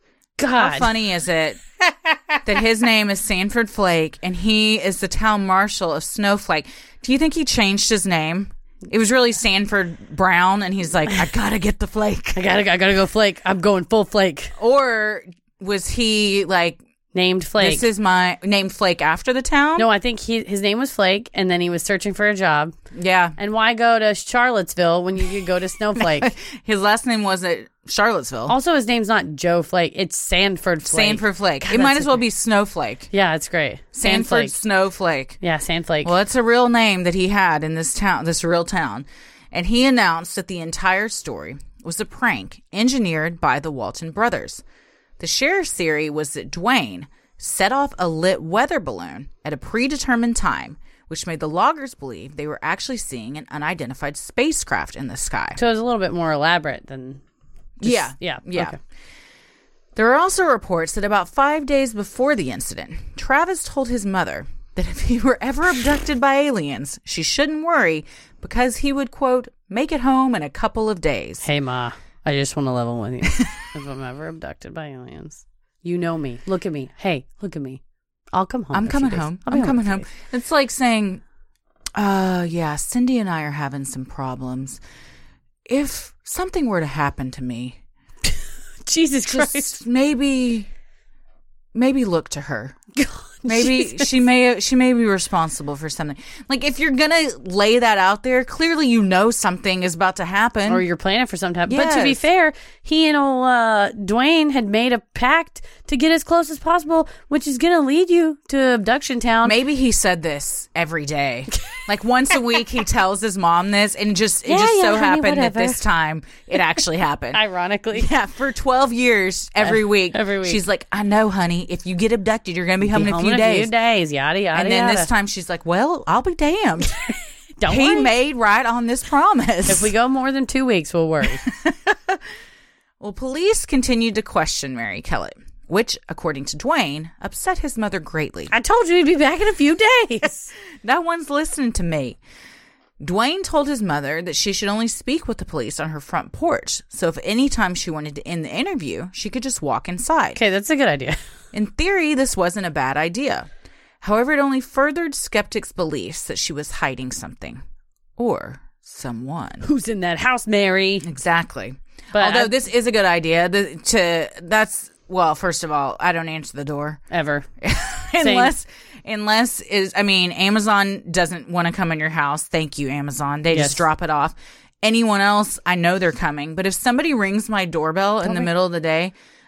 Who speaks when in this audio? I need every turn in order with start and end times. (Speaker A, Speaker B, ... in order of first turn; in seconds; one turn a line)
Speaker A: 0.4-0.9
Speaker B: 0.6-1.6
Speaker B: 2.4-12.4
Speaker A: 12.3-14.5
Speaker B: 14.6-16.8
Speaker A: 17.1-17.8
Speaker B: 17.6-19.9
Speaker A: 19.8-22.7
Speaker B: 22.9-23.4
Speaker A: 23.4-26.3
Speaker B: 25.9-28.6
Speaker A: 28.5-32.2
Speaker B: 30.8-33.1
Speaker A: 33.1-34.5
Speaker B: 33.9-35.4
Speaker A: 35.4-36.1
Speaker B: 36.0-44.6
Speaker B: 45.2-55.6
Speaker A: 55.5-57.2
Speaker B: 57.8-58.8
Speaker A: 57.8-58.8
Speaker B: 59.9-71.5
Speaker A: 71.4-77.8
Speaker A: 78.3-80.1
Speaker B: 78.7-81.2
Speaker B: 81.9-84.8
Speaker B: 85.7-87.8
Speaker A: 88.8-89.8
Speaker B: 89.3-90.7
Speaker B: 91.7-92.8
Speaker A: 93.0-94.1
Speaker B: 93.5-100.8
Speaker A: 100.7-109.6
Speaker B: 101.7-102.2
Speaker B: 109.4-117.4
Speaker A: 114.5-115.8
Speaker A: 117.3-118.1
Speaker B: 117.9-123.7
Speaker A: 119.6-120.6
Speaker A: 122.8-125.1
Speaker B: 124.5-127.0
Speaker A: 127.6-128.1
Speaker B: 127.7-129.9
Speaker A: 129.7-131.4
Speaker B: 131.4-132.2
Speaker B: 133.0-138.5
Speaker A: 138.5-140.5
Speaker B: 140.8-142.2
Speaker B: 143.0-150.4
Speaker A: 150.3-151.2
Speaker B: 151.5-153.5
Speaker B: 154.0-157.6
Speaker B: 158.2-159.6
Speaker A: 159.6-161.1
Speaker B: 161.0-167.0
Speaker A: 162.1-162.5
Speaker A: 167.1-167.4
Speaker B: 167.6-179.1
Speaker A: 168.2-168.5
Speaker A: 173.5-173.8